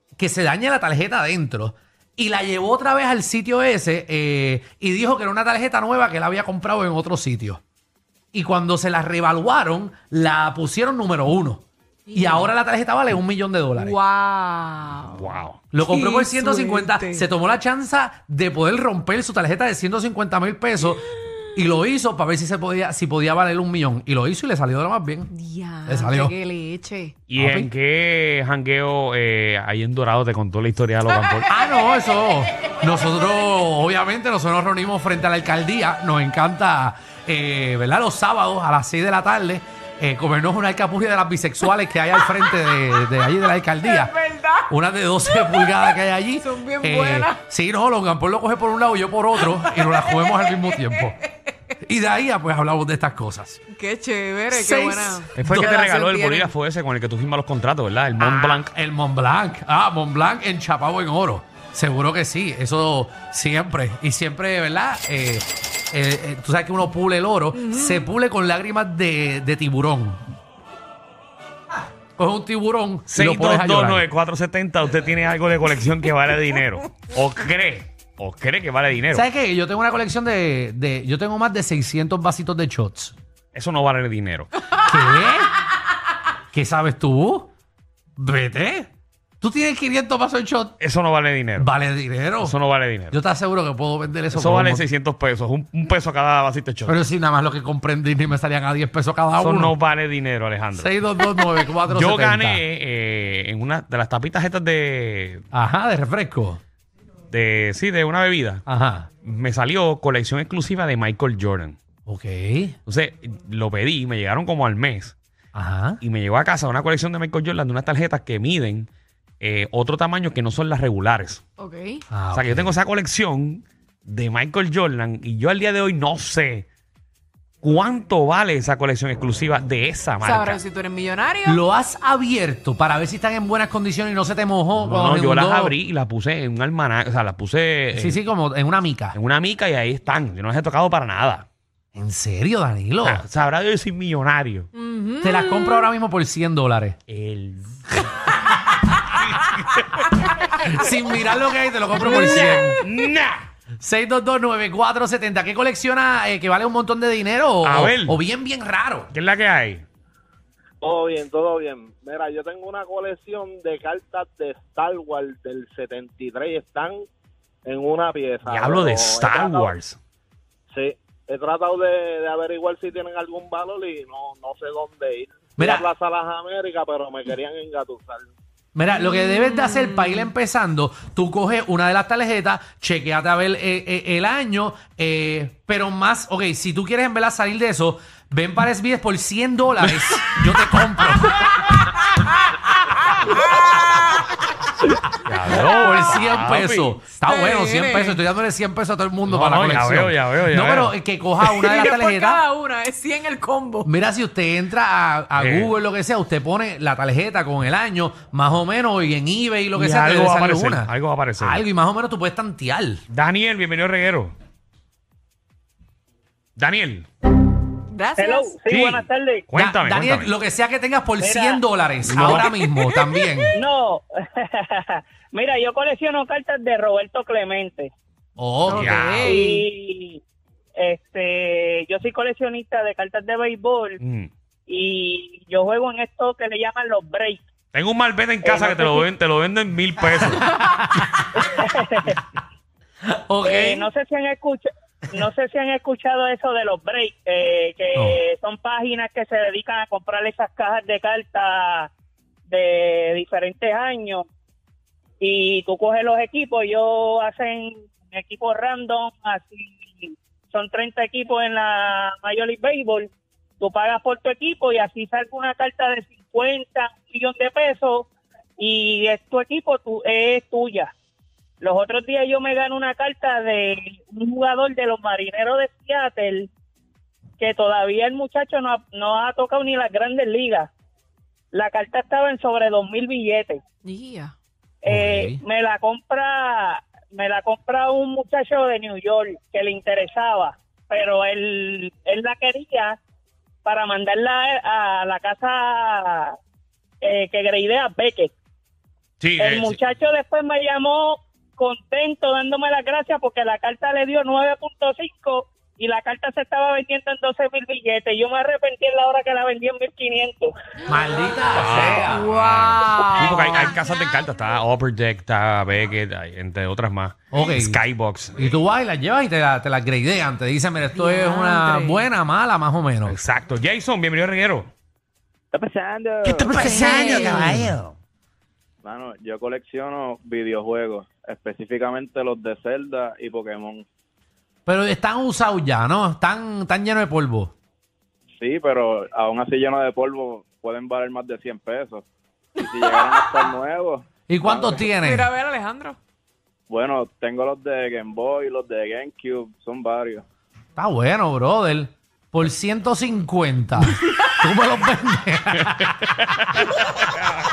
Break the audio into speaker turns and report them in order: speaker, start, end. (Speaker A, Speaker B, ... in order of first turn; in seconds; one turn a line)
Speaker A: 0.2-7.6
Speaker A: 8.3-11.6
Speaker B: 12.1-12.5
Speaker A: 12.1-13.9
Speaker B: 13.8-17.3
Speaker C: 14.9-15.6
Speaker A: 15.7-25.3
Speaker B: 25.3-27.1
Speaker A: 25.9-26.3
Speaker C: 27.3-31.5
Speaker A: 27.3-27.7
Speaker A: 31.5-44.1
Speaker B: 43.8-44.7
Speaker A: 44.7-51.2
Speaker B: 45.3-45.7
Speaker B: 46.4-47.4
Speaker B: 49.5-51.1
Speaker A: 51.8-53.6
Speaker B: 53.7-56.5
Speaker A: 54.5-55.7
Speaker C: 55.3-58.7
Speaker A: 58.2-70.2
Speaker B: 67.5-68.0
Speaker A: 72.2-74.0
Speaker C: 73.1-79.2
Speaker A: 79.1-83.1
Speaker C: 83.5-84.5
Speaker A: 84.8-85.5
Speaker A: 86.5-87.5
Speaker A: 88.2-88.9
Speaker A: 89.4-90.8
Speaker C: 90.8-91.7
Speaker A: 91.6-92.6
Speaker C: 92.4-93.2
Speaker A: 93.1-94.8
Speaker C: 94.3-97.0
Speaker A: 96.8-99.7
Speaker C: 99.4-100.9
Speaker A: 100.7-102.6
Speaker C: 101.9-105.4
Speaker A: 105.5-106.6
Speaker C: 107.3-108.6
Speaker A: 108.7-109.1
Speaker C: 109.2-111.8
Speaker A: 112.0-112.8
Speaker C: 112.9-115.2
Speaker A: 115.5-116.0
Speaker C: 116.0-118.9
Speaker C: 119.4-121.4
Speaker B: 121.6-122.0
Speaker A: 122.1-122.7
Speaker C: 122.3-126.7
Speaker C: 127.6-130.6
Speaker B: 130.2-131.6
Speaker A: 131.4-135.7
Speaker C: 134.8-138.2
Speaker A: 137.9-139.2
Speaker C: 139.1-141.4
Speaker A: 141.9-143.2
Speaker C: 143.0-144.7
Speaker B: 144.7-145.8
Speaker A: 145.2-147.0
Speaker C: 147.1-148.1
Speaker C: 149.2-150.9
Speaker A: 150.6-152.8
Speaker C: 152.0-153.5
Speaker A: 153.8-159.1
Speaker C: 157.6-158.2
Speaker C: 159.1-159.8
Speaker D: 160.8-167.0
Speaker D: 167.6-169.7
Speaker C: 168.4-170.0
Speaker D: 170.7-178.3
Speaker A: 175.6-175.9
Speaker A: 178.7-191.7
Speaker C: 190.0-190.6
Speaker C: 195.2-197.0
Speaker A: 195.5-202.4
Speaker B: 197.2-198.2
Speaker C: 199.3-200.9
Speaker B: 201.4-203.9
Speaker A: 203.8-213.0
Speaker C: 205.4-205.7
Speaker C: 209.7-211.6
Speaker C: 213.1-214.3
Speaker C: 216.6-217.1
Speaker B: 217.9-218.6
Speaker E: 218.2-219.4
Speaker C: 218.7-220.3
Speaker A: 219.5-223.5
Speaker E: 221.2-221.6
Speaker C: 222.1-223.1
Speaker E: 223.5-227.9
Speaker A: 228.4-229.2
Speaker B: 228.7-229.7
Speaker C: 228.7-229.3
Speaker E: 229.2-230.2
Speaker E: 230.8-234.0
Speaker C: 234.0-234.3
Speaker E: 234.7-237.4
Speaker C: 237.7-240.6
Speaker E: 238.4-239.0
Speaker A: 240.2-241.3
Speaker E: 241.3-242.2
Speaker A: 243.1-243.9
Speaker E: 243.4-251.9
Speaker E: 252.5-254.2
Speaker E: 255.2-270.9
Speaker E: 271.6-276.5
Speaker E: 277.4-280.7
Speaker E: 281.5-283.6
Speaker B: 283.8-284.3
Speaker E: 284.8-293.0
Speaker A: 284.9-285.4
Speaker E: 293.6-296.4
Speaker E: 297.0-298.3
Speaker C: 299.2-299.8
Speaker E: 299.4-310.5
Speaker A: 310.9-312.3
Speaker C: 311.5-318.5
Speaker B: 312.1-313.6
Speaker E: 313.1-313.6
Speaker A: 317.3-317.8
Speaker A: 318.4-323.2
Speaker B: 320.9-322.1
Speaker C: 323.1-324.7
Speaker D: 325.5-327.3
Speaker A: 326.2-327.8
Speaker B: 326.6-327.6
Speaker C: 326.9-327.9
Speaker D: 328.8-333.9
Speaker A: 334.6-337.5
Speaker D: 338.4-342.0
Speaker D: 342.6-344.7
Speaker A: 344.3-345.3
Speaker B: 344.8-346.0
Speaker D: 346.7-350.2
Speaker A: 350.8-356.2
Speaker C: 355.8-356.7